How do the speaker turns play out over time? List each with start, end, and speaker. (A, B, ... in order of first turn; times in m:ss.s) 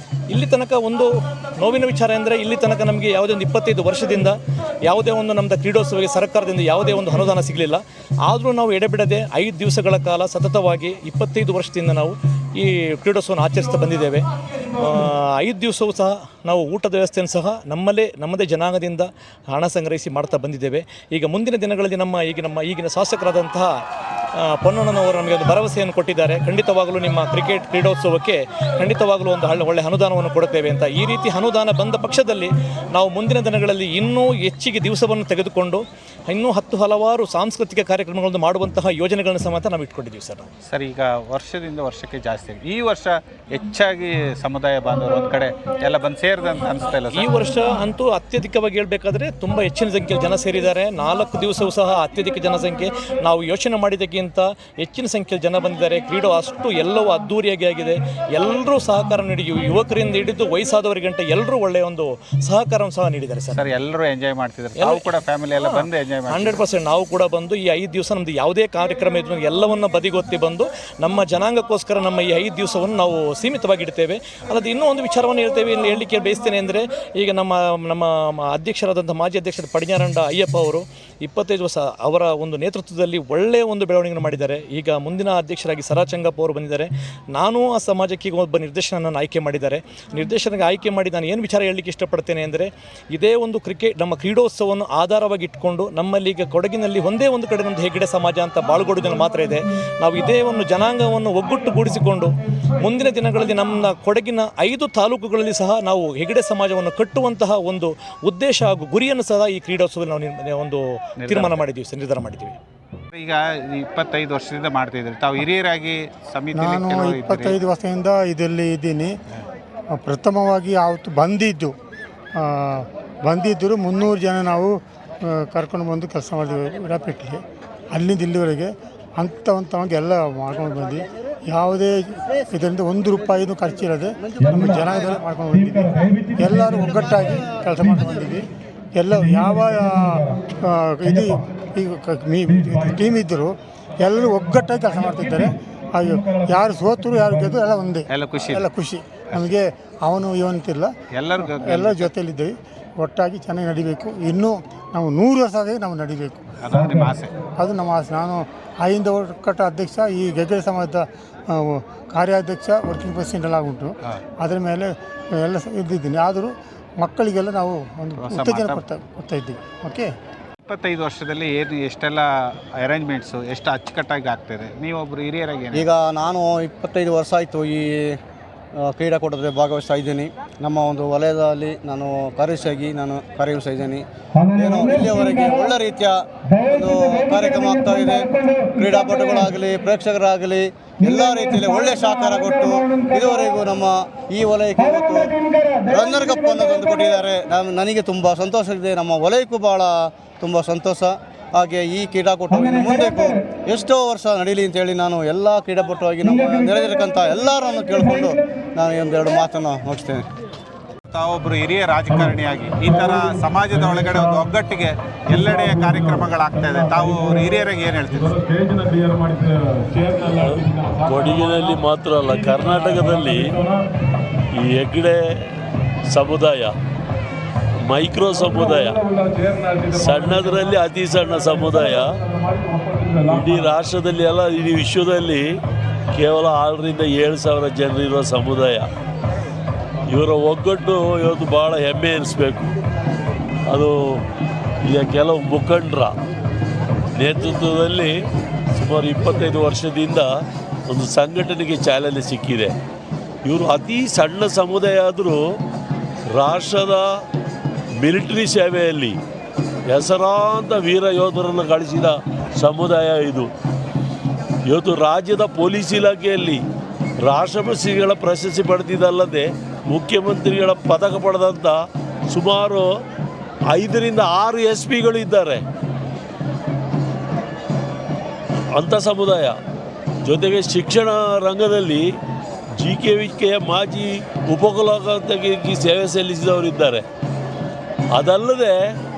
0:00.3-0:14.2 A
0:14.8-0:23.7 A
0:24.4-0:40.5 A
0:40.7-0:47.3 B
0:47.1-1:03.6 A
1:03.5-1:06.6 B
1:04.8-1:05.1 A
1:05.6-1:52.6 A
1:51.2-1:51.6 B
1:53.1-1:57.6 B
1:56.5-1:59.1 C
2:00.0-2:01.7 C
2:02.4-2:07.4 C
2:07.9-2:18.4 C
2:19.0-2:36.4 C
2:28.1-2:28.7 B
2:31.1-2:32.1 B
2:36.6-2:37.3 B
2:37.6-2:50.1 C
2:48.2-2:48.8 B
2:50.6-2:52.2 B
2:52.8-2:55.9 B
2:55.7-2:58.2 D
2:58.9-3:30.2 D
3:31.1-3:38.4 B
3:40.3-3:43.5 E
3:44.6-3:45.2 E
3:46.1-3:46.7 E
3:47.9-3:49.0 E
3:49.9-3:52.2 E
3:53.2-3:55.4 E
3:56.1-3:58.9 E
4:00.1-4:02.7 E
4:03.7-4:04.2 E
4:04.9-4:06.1 E
4:07.2-4:08.1 E
4:08.7-4:10.3 E
4:10.9-4:12.7 E
4:13.4-4:15.4 E
4:16.3-4:17.0 E
4:18.0-4:19.2 E
4:19.9-4:23.5 E
4:24.7-4:26.6 E
4:27.2-4:31.8 E
4:32.3-4:32.9 E
4:33.7-4:35.6 E
4:38.8-4:39.5 E
4:40.2-4:42.0 E
4:42.8-4:47.0 E
4:48.1-4:48.8 E